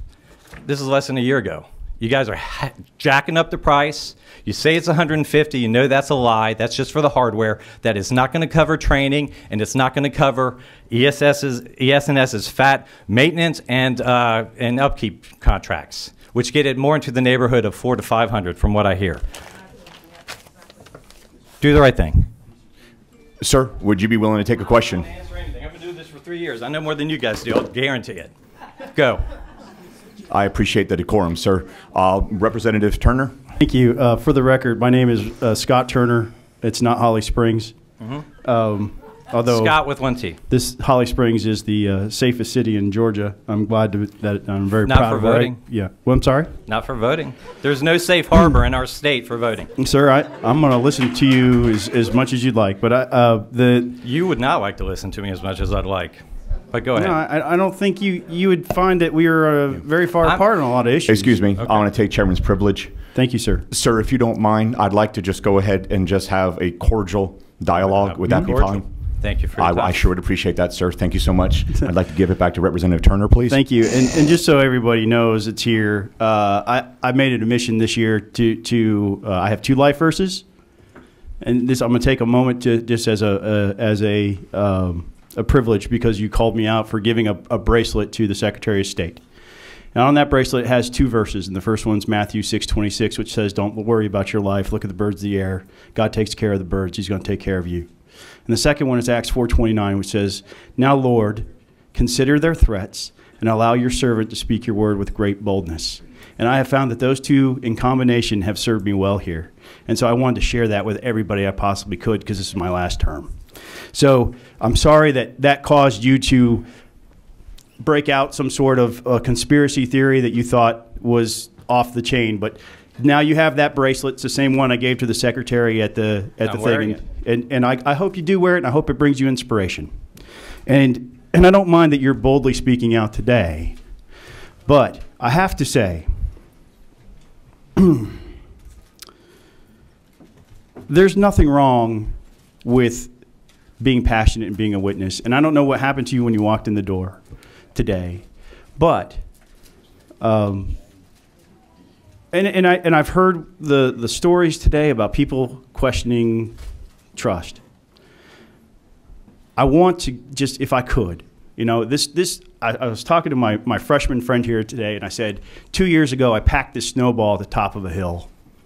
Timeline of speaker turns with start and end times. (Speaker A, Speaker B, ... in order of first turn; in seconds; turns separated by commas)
Speaker A: 0.6-19.2, Speaker A: 21.6-22.3, Speaker B: 23.4-25.1, Speaker A: 24.9-28.3, Speaker A: 28.9-29.3, Speaker B: 30.3-33.4, Speaker C: 33.6-37.8, Speaker A: 38.0-38.3, Speaker C: 38.4-39.8, Speaker A: 39.5-40.4, Speaker C: 40.5-46.5, Speaker A: 44.8-45.6, Speaker A: 46.7-49.7, Speaker C: 49.8-54.0, Speaker A: 54.0-57.2, Speaker C: 56.9-61.4, Speaker B: 61.1-63.0, Speaker A: 61.6-61.9, Speaker C: 63.1-63.7, Speaker B: 63.7-68.9, Speaker A: 67.8-70.1, Speaker C: 68.3-68.5, Speaker B: 69.6-73.6, Speaker C: 73.5-80.5, Speaker C: 81.4-89.2, Speaker C: 89.9-97.9, Speaker C: 98.5-113.3, Speaker C: 113.9-116.7, Speaker C: 117.8-129.9, Speaker A: 126.4-127.0, Speaker C: 130.7-133.8, Speaker C: 134.7-136.1, Speaker C: 137.8-138.2, Speaker C: 140.9-143.1, Speaker C: 143.8-147.2, Speaker C: 147.7-148.2, Speaker C: 148.8-149.2, Speaker C: 150.2-150.8, Speaker C: 152.3-156.6, Speaker C: 157.2-157.6, Speaker C: 159.6-168.3